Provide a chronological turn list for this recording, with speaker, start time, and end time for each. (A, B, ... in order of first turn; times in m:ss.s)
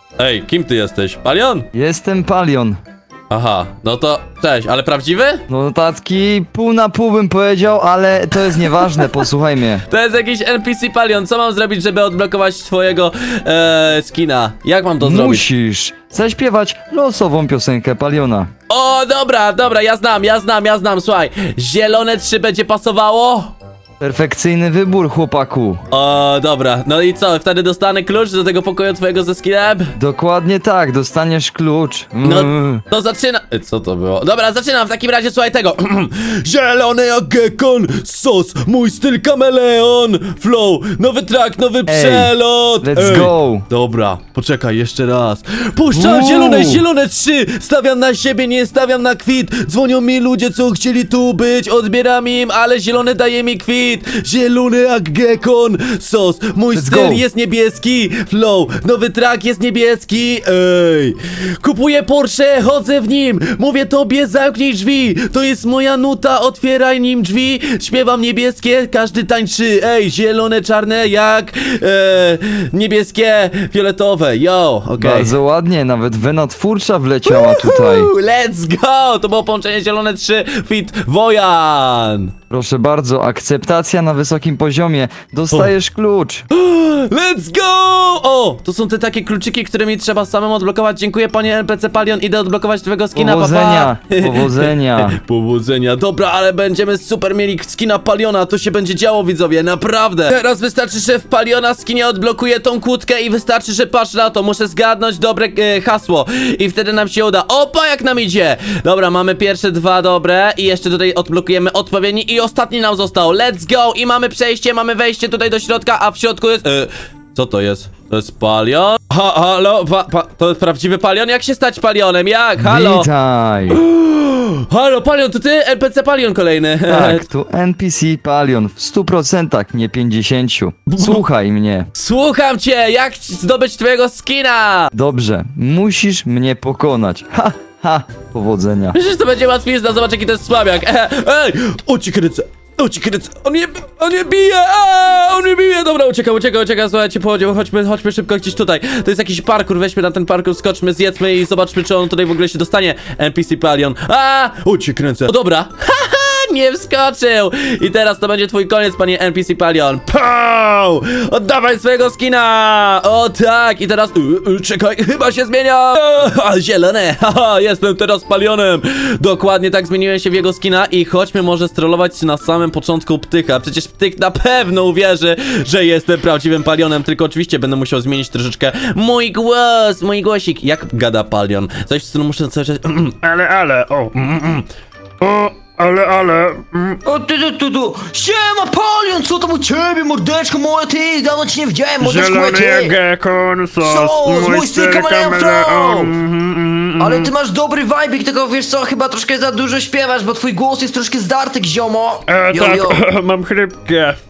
0:00.2-0:01.7 A
0:01.7-0:02.8 B
0:03.3-0:05.4 A
0:05.5-0:09.8 B
0:09.9-0:15.4 A
0:15.0-0:18.5 B
0:18.7-0:23.5 A
0:24.0-0:25.8 B
0:25.9-0:29.9 A
0:30.0-0:32.8 B
0:32.2-1:15.4 A
0:41.9-0:43.6 B
0:45.9-0:46.8 B
0:56.7-0:57.2 B
1:15.0-1:18.1 B
1:17.3-1:22.3 A
1:22.5-1:26.4 B
1:26.5-2:03.1 A
1:33.1-1:35.2 B
2:02.6-2:03.8 B
2:03.7-2:07.2 A
2:06.9-2:11.9 B
2:10.9-2:11.2 A
2:11.9-2:14.9 A
2:14.9-2:19.0 B
2:18.9-3:03.2 A
3:03.2-3:04.7 C
3:05.2-3:07.0 C
3:07.0-3:13.0 D
3:12.0-3:17.3 C
3:13.8-3:16.2 D
3:17.0-3:23.0 D
3:22.3-3:24.2 C